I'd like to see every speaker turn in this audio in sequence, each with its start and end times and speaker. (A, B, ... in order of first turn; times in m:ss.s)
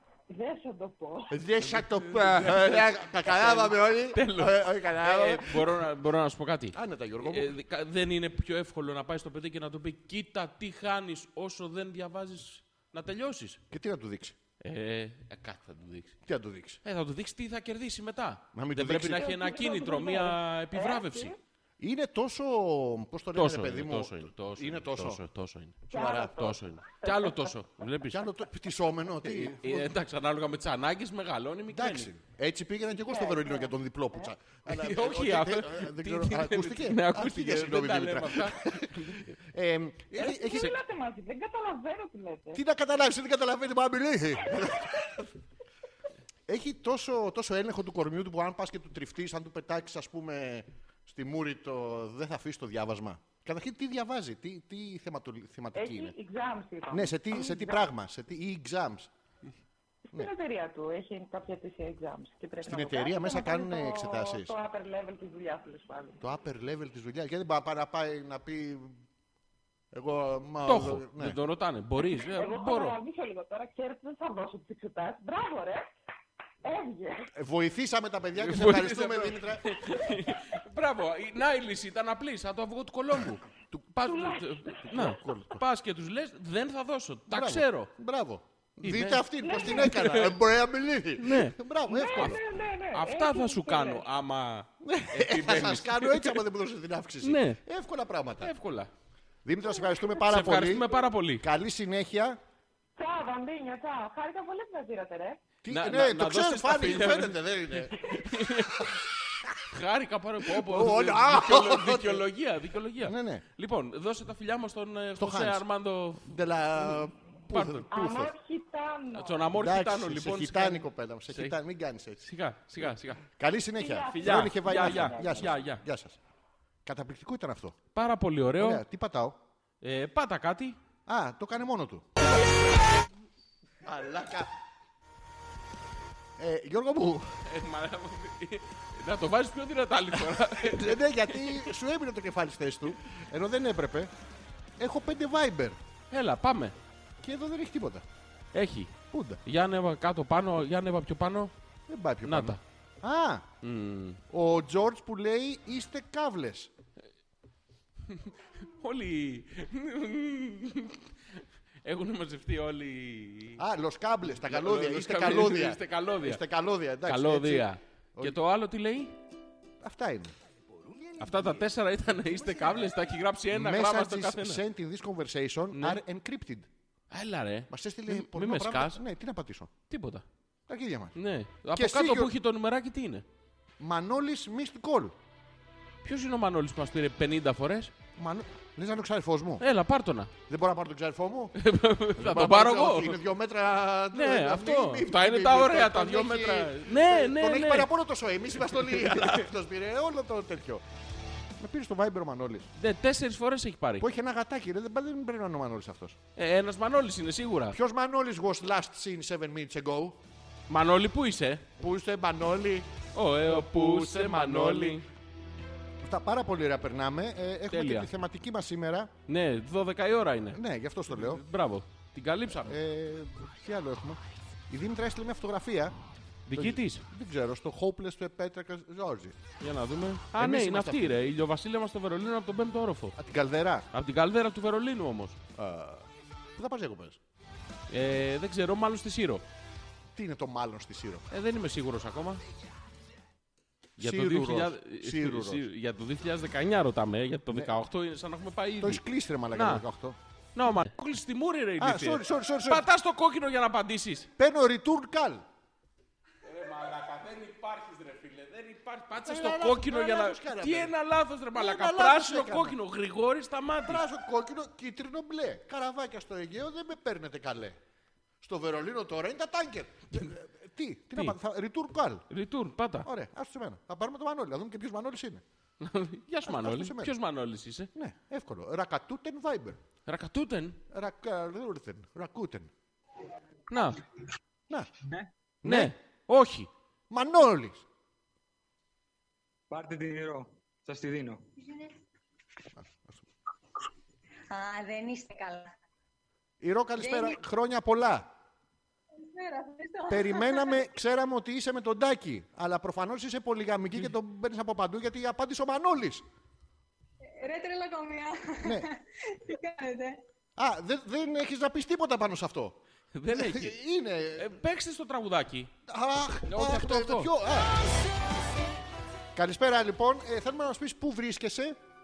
0:00.3-0:01.3 A
0:01.3-0:05.8 B
0:01.8-0:13.6 C
0:06.7-0:07.5 B
0:13.7-0:14.4 B
0:14.6-0:16.2 C
0:16.2-0:16.8 B
0:16.8-0:21.3 C
0:18.5-0:19.4 B
0:19.1-0:21.4 A
0:21.8-0:25.2 B
0:23.4-0:28.3 C
0:25.9-0:26.4 B
0:25.9-0:27.5 A
0:28.1-0:30.0 B
0:29.2-0:32.1 C
0:31.7-0:40.7 B
0:33.0-0:34.3 A
0:34.7-0:39.3 C
0:40.2-0:42.6 A
0:42.5-0:45.3 B
0:44.5-0:44.9 A
0:46.5-0:56.1 B
0:55.8-0:57.9 A
0:56.9-0:59.1 B
1:00.1-1:06.2 A
1:02.6-1:04.5 B
1:06.2-1:09.0 B
1:09.9-1:11.4 B
1:10.7-1:13.0 C
1:12.2-1:15.9 A
1:16.6-1:17.3 A
1:17.4-1:19.7 B
1:18.4-1:23.4 C
1:23.7-1:24.1 B
1:23.9-1:27.9 C
1:24.0-1:24.8 A
1:24.9-1:25.6 B
1:27.3-1:32.4 B
1:28.8-1:30.4 C
1:29.4-1:29.9 A
1:31.2-1:31.6 C
1:31.9-1:34.0 A
1:32.1-1:32.4 C
1:32.9-1:36.4 C
1:34.8-1:38.5 B
1:37.2-1:37.6 C
1:38.4-1:38.9 C
1:39.4-1:40.9 B
1:40.2-1:41.4 C
1:41.4-1:42.4 B
1:43.0-1:45.4 A
1:45.6-1:49.0 B
1:45.7-1:49.0 C
1:49.7-1:57.9 C
1:50.5-1:52.3 B
1:53.0-1:53.4 B
1:55.2-1:55.6 B
1:56.2-1:58.3 B
1:57.9-1:59.5 A
1:59.2-2:01.6 C
1:59.5-2:02.2 B
2:02.2-2:03.2 C
2:02.8-2:06.2 B
2:03.8-2:05.5 A
2:04.1-2:05.8 C
2:06.9-2:07.8 B
2:08.0-2:08.8 C
2:08.6-2:09.4 B
2:09.8-2:10.8 C
2:11.1-2:12.5 B
2:13.8-2:14.5 B
2:16.4-2:17.3 B
2:17.5-2:21.7 C
2:20.3-2:24.1 B
2:24.8-2:25.8 B
2:26.1-2:26.8 C
2:27.2-2:28.0 B
2:28.5-2:31.5 C
2:29.1-2:29.4 B
2:31.9-2:33.5 B
2:32.2-2:32.6 C
2:33.6-2:34.2 C
2:34.3-2:36.7 B
2:38.1-2:43.6 C
2:43.6-2:48.4 B
2:44.3-2:46.4 C
2:47.0-2:49.2 C
2:49.8-2:50.3 B
2:51.0-2:51.6 B
2:51.2-2:54.6 C
2:52.4-2:52.7 B
2:53.5-2:56.7 B
2:55.7-2:56.0 C
2:57.1-2:59.0 C
2:57.7-2:59.7 B
2:59.9-3:00.2 C
3:00.7-3:01.2 B
3:01.2-3:03.2 C
3:01.7-3:02.3 B
3:03.8-3:05.2 B
3:06.0-3:07.9 C
3:08.2-3:09.6 B
3:09.6-3:10.3 C
3:10.5-3:11.6 B
3:11.6-3:13.2 C
3:12.2-3:20.8 B
3:14.1-3:17.9 C
3:18.7-3:19.5 C
3:21.6-3:22.7 B
3:22.8-3:24.1 C
3:24.0-3:26.2 B
3:26.4-3:27.8 C
3:27.7-3:30.2 B
3:30.7-3:31.7 C
3:31.8-3:32.9 B
3:33.2-3:35.1 C
3:33.5-3:35.0 B
3:36.0-3:39.1 B
3:37.7-3:38.1 C
3:39.3-3:40.6 C
3:40.5-3:41.4 B
3:41.1-3:42.8 C
3:42.6-3:46.0 B
3:46.5-3:47.0 C
3:46.5-3:49.4 B
3:49.6-3:53.2 C
3:50.3-3:51.2 B
3:53.2-3:53.9 B
3:53.9-3:55.4 C
3:55.6-3:57.2 B
3:57.9-3:59.4 C
4:00.2-4:01.2 B
4:01.3-4:02.4 C
4:04.0-4:05.6 B
4:04.0-4:09.8 C
4:07.5-4:07.8 B
4:08.8-4:10.2 B
4:10.6-4:14.3 C
4:11.8-4:12.8 B
4:14.4-4:15.4 B
4:16.4-4:24.0 C
4:19.2-4:20.9 B
4:21.6-4:22.8 B
4:23.8-4:27.8 B
4:28.4-4:32.3 B
4:32.3-4:33.1 C
4:33.0-4:35.4 B
4:35.8-4:37.9 C
4:36.4-4:37.1 B
4:38.0-4:39.8 B
4:40.1-4:40.8 C
4:40.9-4:42.7 B
4:43.7-4:44.0 C
4:45.0-4:45.3 D
4:45.6-4:45.9 B
4:45.6-4:46.7 C
4:47.1-4:47.8 B
4:49.7-4:51.4 D
4:51.6-4:51.9 E
4:52.8-4:53.2 B
4:54.5-4:55.7 E
4:56.6-4:58.3 B
4:57.0-4:57.4 E
4:59.1-5:00.9 E
5:00.1-5:06.2 B
5:07.2-5:10.2 E
5:10.6-5:12.8 B
5:13.1-5:13.8 C
5:13.3-5:14.6 B
5:14.4-5:15.7 C
5:15.9-5:17.8 B
5:16.5-5:17.3 C
5:19.4-5:21.8 B